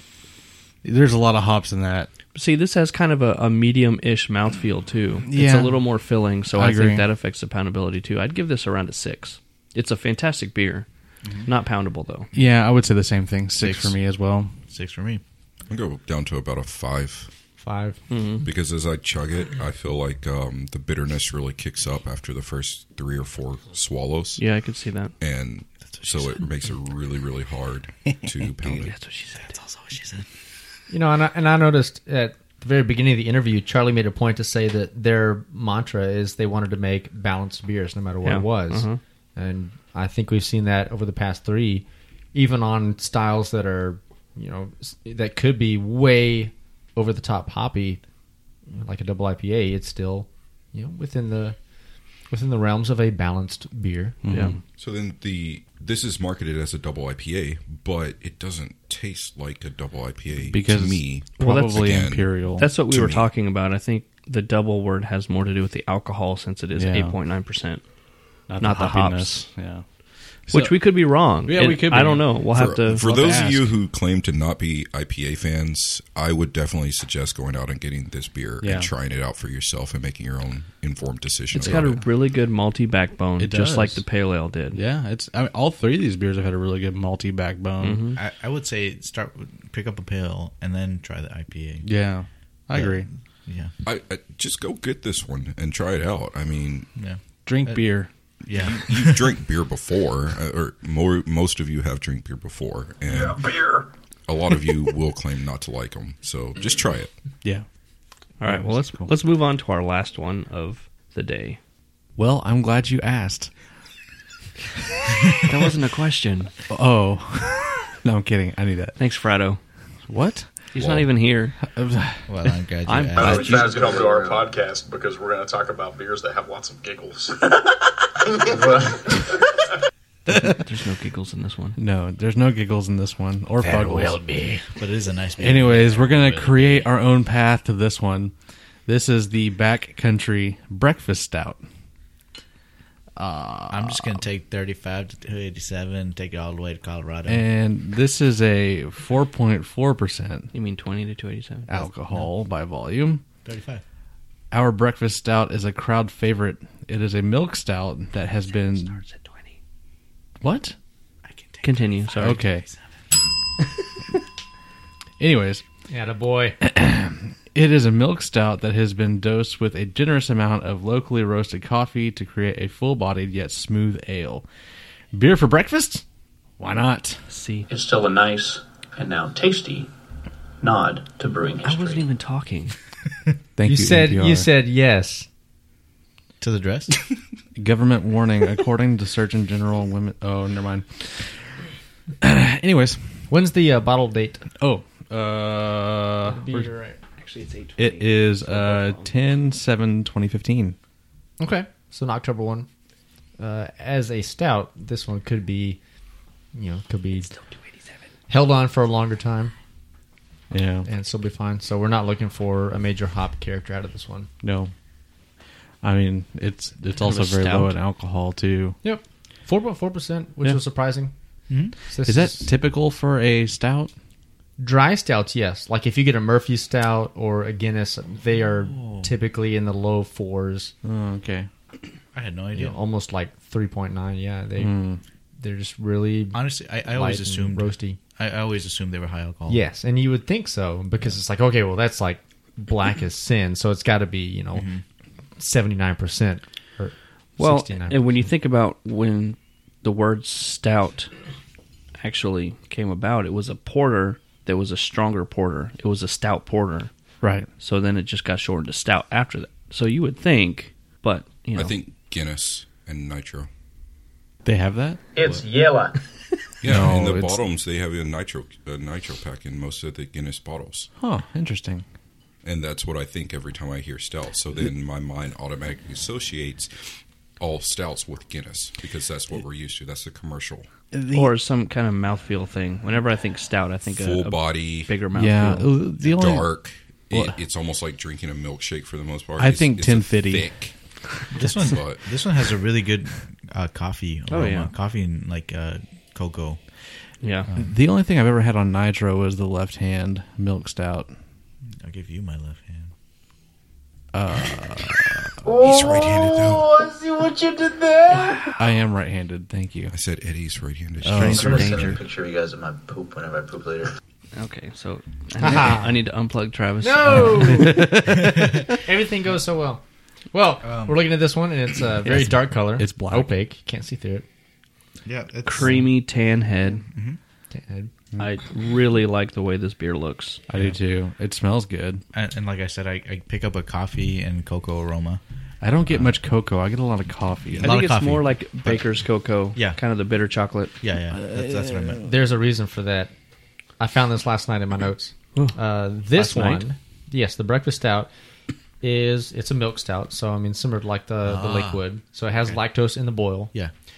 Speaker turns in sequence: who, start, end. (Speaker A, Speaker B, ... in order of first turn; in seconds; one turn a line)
Speaker A: 0.8-2.1
Speaker B: 2.4-10.9
Speaker A: 5.3-5.9
Speaker A: 6.5-7.1
Speaker B: 11.4-12.3
Speaker A: 12.3-14.5
Speaker C: 13.6-14.0
Speaker C: 14.7-15.2
Speaker D: 15.7-17.3
Speaker E: 17.6-18.0
Speaker B: 18.1-18.5
Speaker D: 18.4-24.5
Speaker B: 24.4-25.1
Speaker D: 25.2-28.9
Speaker B: 28.8-29.6
Speaker C: 29.6-30.2
Speaker E: 30.9-48.0
Speaker B: 38.2-39.0
Speaker E: 48.7-51.6
Speaker E: 52.3-54.2
Speaker A: 54.2-54.6
Speaker B: 54.3-54.6
Speaker D: 54.8-63.3
Speaker A: 60.5-62.7
Speaker B: 61.4-67.8
Speaker A: 66.8-67.2
Speaker A: 68.5-69.8
Speaker B: 68.6-69.5
Speaker A: 70.5-70.8
Speaker B: 70.5-73.1
Speaker A: 71.4-72.4
Speaker D: 72.5-82.0
Speaker A: 73.0-73.7
Speaker A: 78.6-78.9
Speaker B: 81.5-84.8
Speaker A: 83.4-84.0
Speaker A: 84.7-88.1
Speaker B: 87.8-88.2
Speaker C: 88.2-91.9
Speaker A: 91.8-93.1
Speaker C: 92.7-93.7
Speaker D: 93.8-96.9
Speaker C: 97.0-99.3
Speaker A: 97.5-98.1
Speaker D: 98.5-103.6
Speaker F: 103.5-103.8
Speaker D: 104.3-107.2
Speaker B: 108.4-111.6
Speaker A: 108.4-109.1
Speaker A: 112.2-113.5
Speaker B: 115.4-116.6
Speaker A: 116.7-119.0
Speaker B: 119.0-119.6
Speaker A: 120.1-120.5
Speaker B: 120.7-121.6
Speaker D: 120.8-121.1
Speaker A: 121.6-122.3
Speaker C: 122.3-123.6
Speaker B: 122.9-124.0
Speaker F: 123.2-127.6
Speaker F: 128.2-129.3
Speaker A: 130.3-130.6
Speaker B: 130.3-131.8
Speaker A: 131.8-134.6
Speaker E: 133.8-134.4
Speaker C: 134.8-136.9
Speaker A: 135.4-138.3
Speaker A: 138.9-141.6
Speaker A: 143.2-144.2
Speaker C: 143.7-147.4
Speaker A: 147.3-150.5
Speaker B: 150.5-151.8
Speaker A: 151.7-153.2
Speaker C: 153.4-153.8
Speaker A: 154.5-159.0
Speaker B: 158.5-159.5
Speaker A: 160.4-160.8
Speaker C: 161.2-162.9
Speaker B: 161.6-162.4
Speaker A: 162.2-162.7
Speaker A: 165.2-165.6
Speaker E: 165.9-166.6
Speaker A: 166.6-174.5
Speaker A: 175.1-176.0
Speaker A: 176.6-177.2
Speaker B: 177.3-177.7
Speaker F: 177.7-179.9
Speaker F: 180.6-182.0
Speaker B: 181.6-182.7
Speaker A: 183.6-184.5
Speaker E: 183.6-185.3
Speaker C: 186.4-187.0
Speaker A: 187.6-191.6
Speaker A: 192.2-193.3
Speaker E: 193.3-194.5
Speaker A: 194.6-196.7
Speaker E: 196.3-197.0
Speaker B: 197.2-199.1
Speaker A: 197.8-200.8
Speaker E: 201.4-202.7
Speaker E: 203.4-205.8
Speaker E: 206.5-207.3
Speaker E: 208.3-209.5
Speaker A: 210.5-210.9
Speaker E: 210.8-214.3
Speaker A: 214.4-214.7
Speaker A: 215.8-218.8
Speaker B: 217.0-217.7
Speaker E: 218.8-221.1
Speaker C: 221.5-221.8
Speaker E: 221.9-222.5
Speaker A: 222.1-223.9
Speaker E: 224.6-230.7
Speaker C: 228.5-229.1
Speaker A: 230.8-231.5
Speaker C: 232.1-232.8
Speaker E: 232.6-238.0
Speaker A: 234.6-235.0
Speaker C: 236.3-239.6
Speaker E: 239.5-244.7
Speaker C: 244.5-244.8
Speaker E: 245.4-248.2
Speaker B: 247.4-251.1
Speaker B: 252.0-256.9
Speaker A: 257.2-257.5
Speaker B: 257.6-261.8
Speaker D: 261.6-263.5
Speaker A: 264.4-265.0
Speaker F: 265.1-266.0
Speaker D: 266.6-270.9
Speaker A: 266.6-267.4
Speaker A: 271.0-271.9
Speaker D: 272.4-280.7
Speaker A: 280.9-281.3
Speaker B: 281.1-285.8
Speaker D: 283.9-284.9
Speaker A: 285.1-286.5
Speaker D: 286.0-290.8
Speaker A: 287.1-287.4
Speaker A: 289.4-290.6
Speaker C: 291.3-296.6
Speaker D: 291.5-292.1
Speaker B: 294.3-294.7
Speaker B: 297.2-297.5
Speaker A: 297.6-301.1
Speaker C: 301.8-302.9
Speaker A: 304.1-305.3
Speaker F: 305.5-307.5
Speaker D: 305.6-306.7
Speaker E: 306.9-308.5
Speaker A: 308.6-309.9
Speaker D: 309.9-311.6
Speaker A: 311.0-312.0
Speaker F: 311.1-313.9
Speaker B: 311.2-312.0
Speaker B: 314.4-317.9
Speaker E: 315.4-315.9
Speaker E: 316.8-324.2
Speaker A: 317.1-318.7
Speaker C: 317.8-318.7
Speaker C: 320.6-321.1
Speaker A: 322.0-323.4
Speaker C: 325.1-325.9
Speaker B: 325.5-326.8
Speaker C: 326.9-327.2
Speaker E: 327.5-327.9
Speaker B: 328.2-330.4
Speaker A: 330.5-332.0
Speaker C: 330.5-330.8
Speaker C: 332.1-335.2
Speaker A: 335.6-337.9
Speaker C: 337.6-339.0
Speaker B: 337.6-340.8
Speaker C: 340.8-342.0
Speaker A: 341.1-342.0
Speaker E: 342.0-343.1
Speaker E: 343.8-348.1
Speaker B: 346.1-346.6
Speaker E: 348.8-353.5
Speaker C: 351.2-351.8